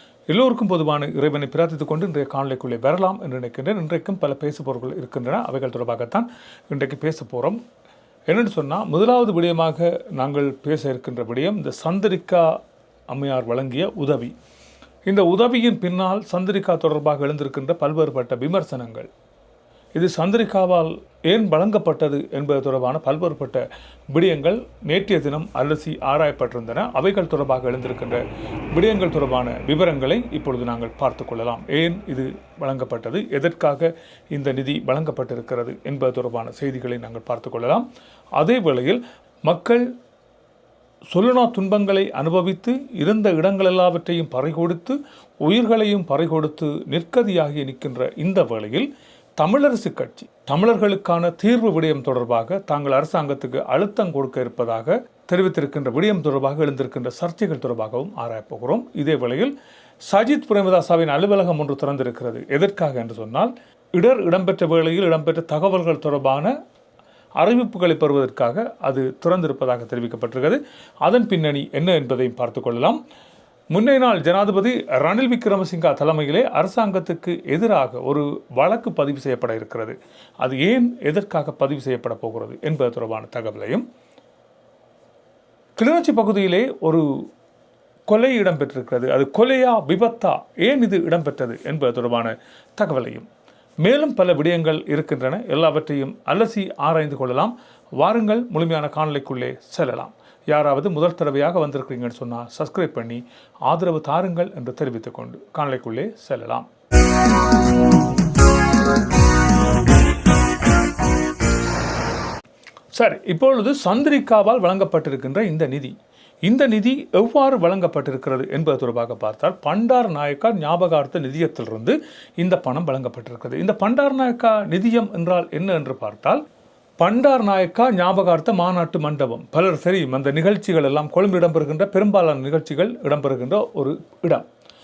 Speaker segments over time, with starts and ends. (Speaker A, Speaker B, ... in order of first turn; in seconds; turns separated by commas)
Speaker A: 0.3-7.6, Speaker A: 8.3-12.6, Speaker A: 13.1-14.3, Speaker A: 15.1-19.1, Speaker A: 19.9-28.2, Speaker A: 28.7-37.9, Speaker A: 38.4-39.9, Speaker A: 41.1-59.5, Speaker A: 60.0-66.5, Speaker A: 67.4-73.0, Speaker A: 73.7-83.8, Speaker A: 85.8-87.1, Speaker A: 88.1-93.3, Speaker A: 93.8-106.7, Speaker A: 112.9-126.4, Speaker A: 127.0-134.4